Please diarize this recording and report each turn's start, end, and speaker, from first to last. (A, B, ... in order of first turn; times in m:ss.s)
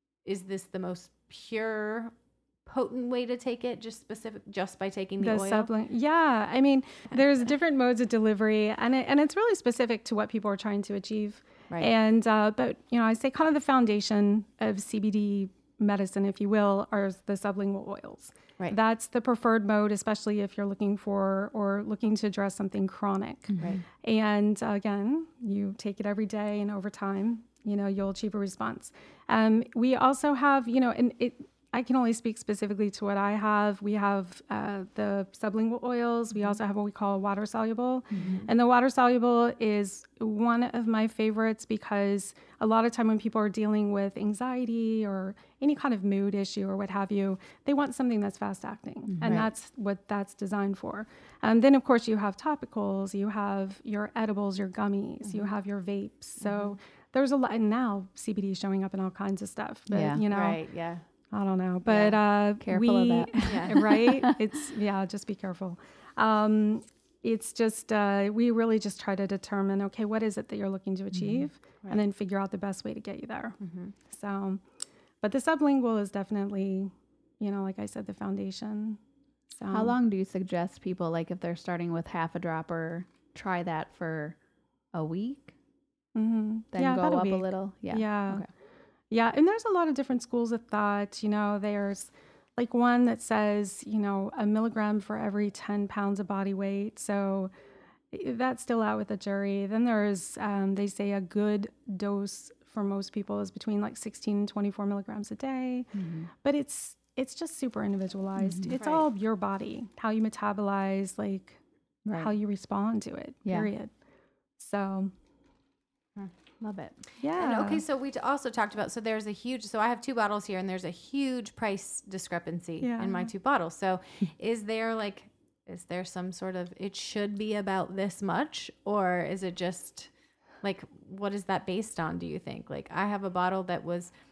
0:00.2-0:05.7 A
0:05.2-1:00.7 B
0:23.5-0:23.8 C
0:38.1-0:38.4 C
0:38.1-0:38.5 A
0:49.1-0:49.4 C
0:49.2-0:49.5 A
0:56.4-0:56.8 A
0:59.9-1:00.2 C
1:00.3-1:01.0 A
1:01.3-1:14.6 B
1:01.9-1:04.4 C
1:03.4-1:03.8 A
1:11.1-1:11.5 C
1:13.6-1:13.9 A
1:15.2-1:19.0 B
1:19.5-1:19.9 B
1:19.7-1:24.4 C
1:24.9-1:25.5 C
1:26.1-1:28.5 B
1:26.7-1:28.5 C
1:29.1-1:37.5 B
1:38.1-1:51.6 B
1:45.9-1:46.3 C
1:48.4-1:48.7 C
1:48.7-1:49.0 A
1:52.0-1:52.3 C
1:52.1-1:53.9 B
1:53.4-1:53.7 C
1:54.6-1:55.1 B
1:56.2-2:14.1 A
1:57.2-1:57.8 B
2:02.8-2:03.3 B